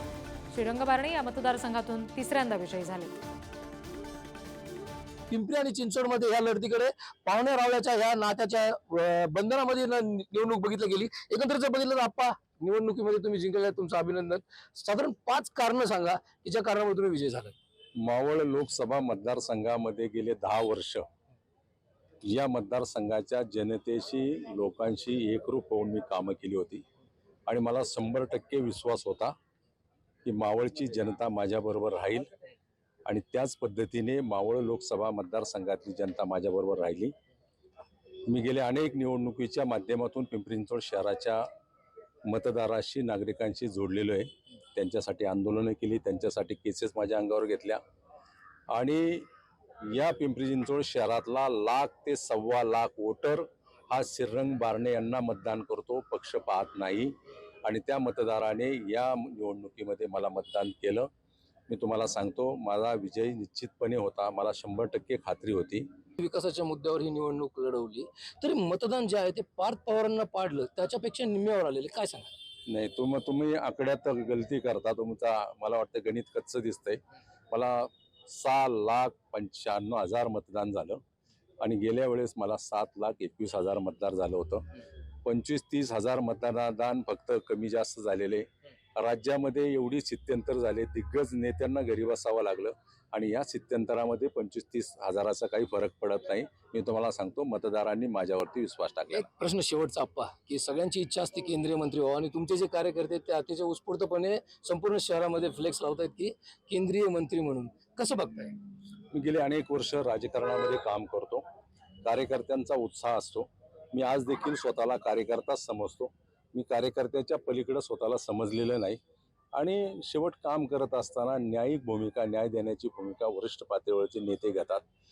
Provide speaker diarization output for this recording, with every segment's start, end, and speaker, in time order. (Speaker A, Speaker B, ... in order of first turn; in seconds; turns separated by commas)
Speaker A: 0.5-3.2, Speaker B: 5.3-17.6, Speaker C: 18.0-21.0, Speaker C: 22.2-26.8, Speaker C: 27.5-29.3, Speaker C: 30.2-32.3, Speaker C: 33.0-37.1, Speaker C: 38.3-41.4, Speaker C: 42.2-47.8, Speaker C: 48.7-49.3, Speaker C: 49.9-57.1, Speaker C: 57.6-61.1, Speaker C: 61.7-65.8, Speaker B: 66.2-72.3, Speaker C: 72.7-77.0, Speaker C: 77.5-81.0, Speaker C: 81.6-84.7, Speaker C: 85.2-99.2, Speaker B: 99.1-108.5, Speaker C: 109.1-111.4, Speaker C: 112.0-119.0, Speaker C: 119.5-124.8